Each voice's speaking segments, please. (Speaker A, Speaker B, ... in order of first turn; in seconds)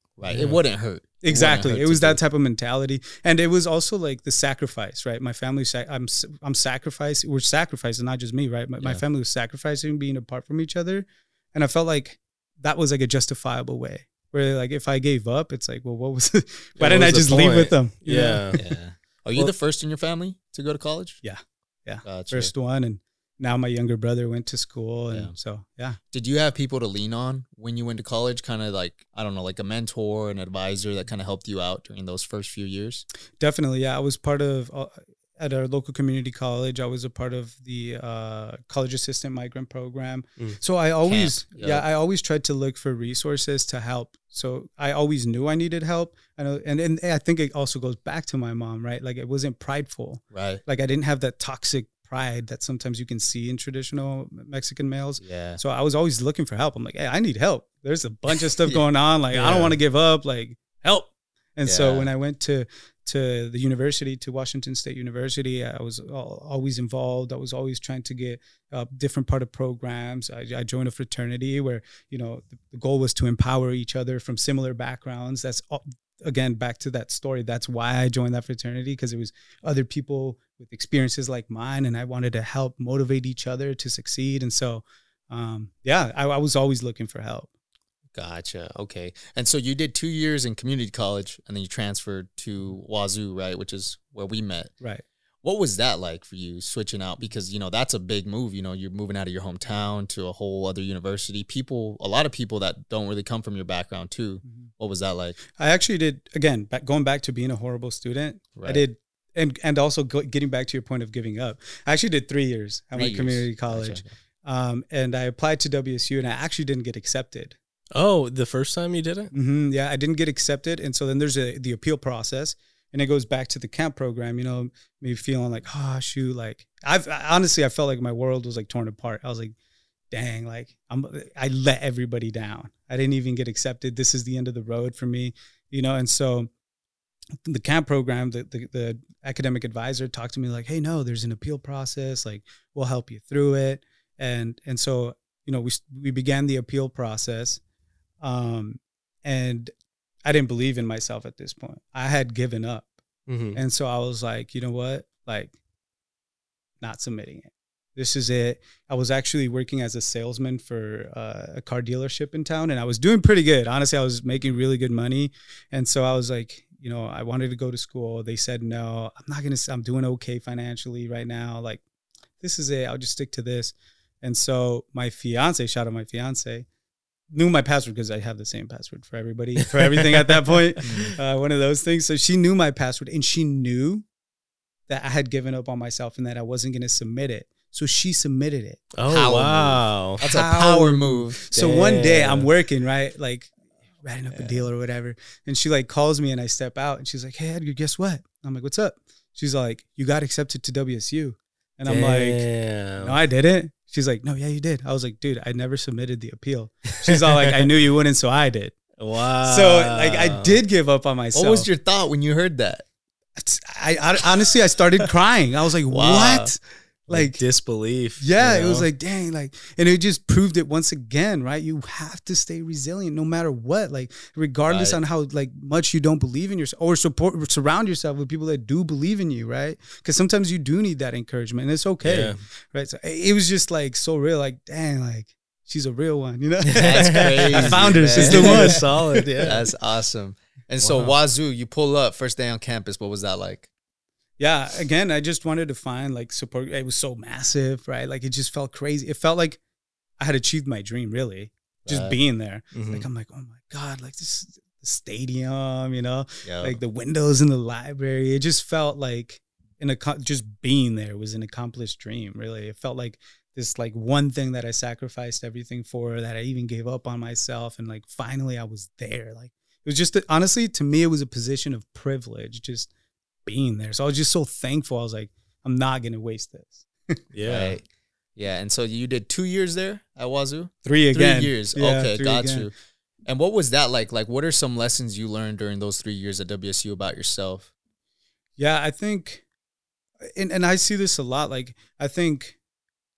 Speaker A: 0.2-2.2, 18.5-21.2, 22.0-22.5, 26.1-33.0, 41.0-41.9, 50.3-50.6, 55.2-55.6, 59.3-59.7, 61.6-62.1, 88.1-94.7, 95.4-105.4, 108.6-108.8, 113.0-114.1, 180.8-181.1, 189.1-191.4, 211.3-212.8, 215.9-216.5, 224.7-225.0, 236.7-238.8, 239.4-243.7, 251.9-252.2, 256.4-256.8, 277.5-277.9, 278.4-282.7, 283.2-287.7
Speaker B: 0.3-0.6, 16.8-18.6, 117.9-119.3, 153.3-153.6, 189.0-190.2, 191.5-192.5, 201.9-203.2, 207.1-207.4, 209.0-210.6, 217.1-218.9, 232.0-232.4, 236.7-239.6, 240.8-241.1, 252.7-253.0, 277.3-277.8
Speaker C: 1.2-18.6, 21.2-26.0, 33.4-87.5, 105.6-117.6, 119.3-129.5, 130.1-136.5, 137.4-147.6, 148.2-149.7, 150.2-152.9, 153.5-155.5, 156.8-171.8, 172.4-176.7, 177.3-184.0, 184.9-188.9, 190.2-202.5, 203.0-208.8, 209.4-211.7, 213.4-216.6, 217.1-217.4, 218.2-239.5, 244.4-249.6, 250.2-272.9, 273.4-277.1, 280.8-282.7, 288.6-289.4, 290.4-292.6